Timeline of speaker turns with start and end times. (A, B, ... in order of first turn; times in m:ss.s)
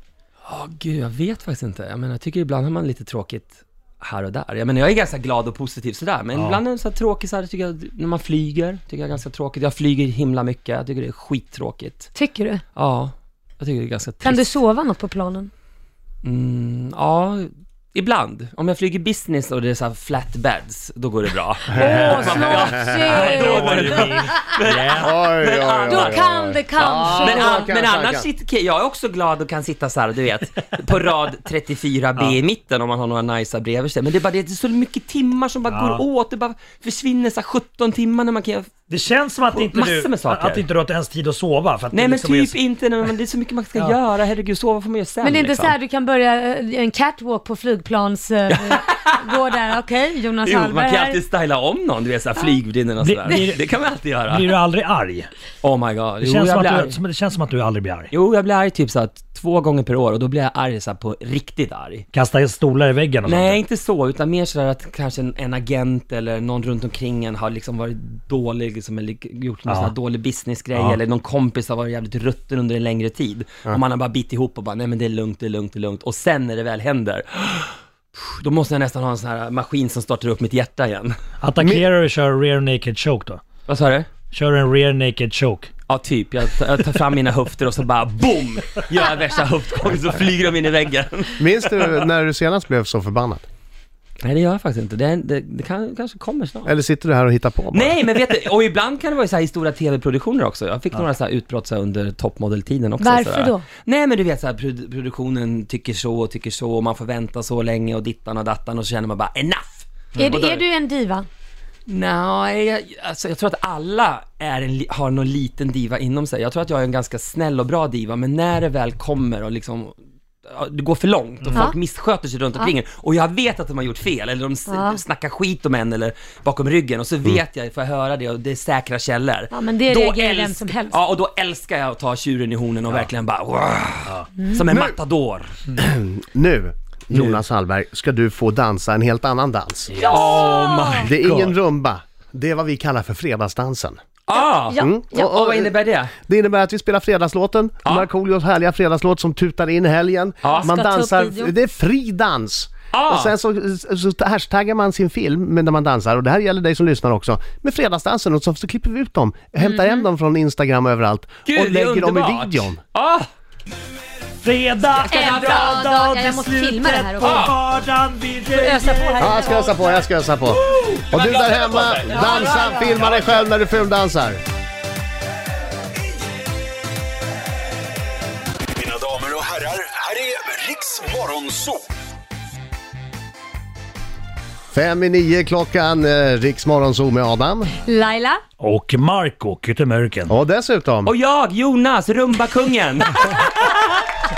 0:00.4-0:12.1 A
0:06.3-0:06.6 B
0:12.1-0:12.6 C
0:12.8-0:14.5 A
0:14.2-0:15.5 C
0:16.2-0:26.2 A
0:21.7-0:24.3 C
0:21.8-0:25.1 B
0:25.0-0:28.3 D
0:25.8-0:27.7 C
0:27.1-0:38.7 A
0:35.7-0:36.0 B
0:38.9-0:42.6 B
0:39.5-0:40.6 A
0:41.9-0:45.7 A
0:45.2-0:51.2 C
0:48.6-0:49.1 A
0:50.4-0:54.5 A
0:53.0-0:53.6 B
0:54.2-0:55.3 B
0:55.6-0:57.0 A
0:56.2-0:58.1 B
0:58.1-1:02.0 A
1:02.1-1:03.6 B
1:03.2-1:21.1 A
1:09.7-1:09.9 B
1:21.4-1:23.4 B
1:21.6-1:21.8 D
1:23.7-1:24.1 A
1:24.3-1:25.7 B
1:25.9-1:31.5 A
1:31.4-1:33.4 D
1:34.2-1:36.7 A
1:36.6-1:38.0 D
1:37.7-1:50.6 A
1:43.0-1:43.6 C
1:50.1-1:51.3 C
1:51.9-2:15.6 A
2:04.7-2:05.0 C
2:09.5-2:11.0 C
2:14.7-2:14.9 D
2:15.8-2:20.0 D
2:17.1-2:17.4 A
2:19.9-2:20.4 B
2:20.0-2:21.1 C
2:20.0-2:21.5 A
2:21.0-2:24.0 D
2:24.3-2:26.1 A
2:24.3-2:25.4 C
2:24.7-2:42.8 D
2:30.4-2:30.7 A
2:30.4-2:31.5 C
2:32.9-2:33.3 A
2:39.6-2:39.9 C
2:41.4-2:43.3 A
2:44.4-2:49.5 B
2:45.0-2:47.5 C
2:45.0-2:45.8 A
2:47.2-2:47.6 A
2:48.5-2:49.9 C
2:49.2-2:54.4 D
2:50.7-2:53.3 B
2:52.0-2:53.0 C
2:58.8-3:01.8 E
3:04.7-3:07.7 D
3:07.8-3:08.4 C
3:08.6-3:10.3 B
3:10.3-3:11.1 D
3:11.0-3:13.8 A